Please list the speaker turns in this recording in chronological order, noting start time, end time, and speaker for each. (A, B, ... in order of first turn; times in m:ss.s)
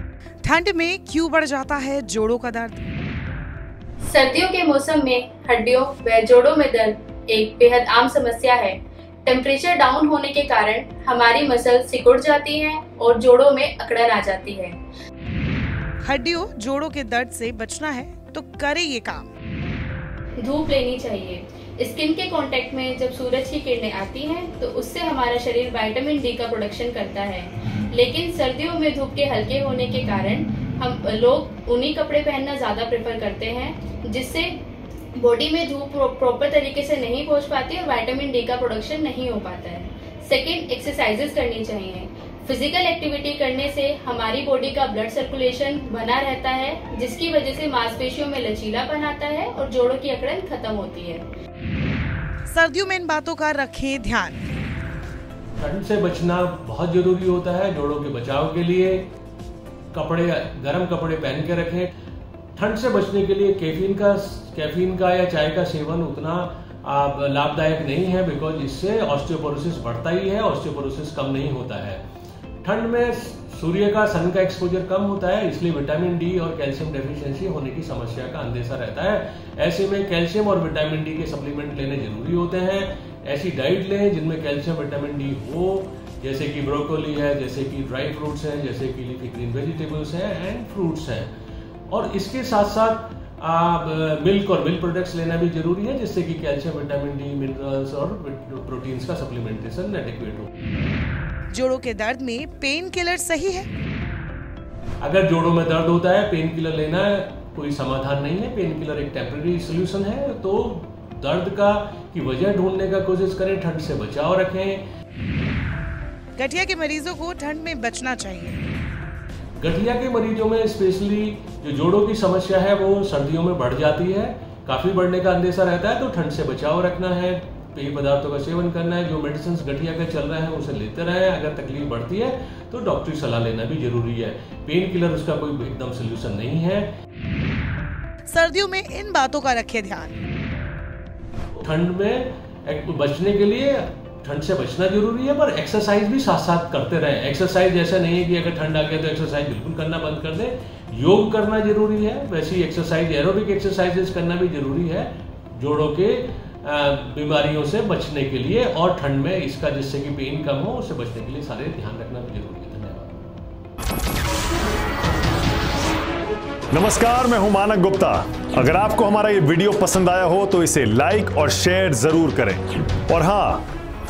0:00.4-0:02.8 A
0:04.0-0:14.8 B
0:16.0-0:19.3 A
0:20.4-0:34.5 B
0:35.2-0:51.3 B
0:52.5-0:54.4 A
0:55.6-0:59.1 C
0:59.9-1:01.9 C
1:02.6-1:12.0 C
1:12.6-1:31.3 C
1:31.9-1:40.5 C
1:41.5-1:43.7 A
1:45.0-1:54.8 C
1:56.4-1:58.6 A
1:59.6-2:16.9 C
2:18.3-2:20.1 A
2:21.5-2:43.2 C
2:46.7-2:53.7 D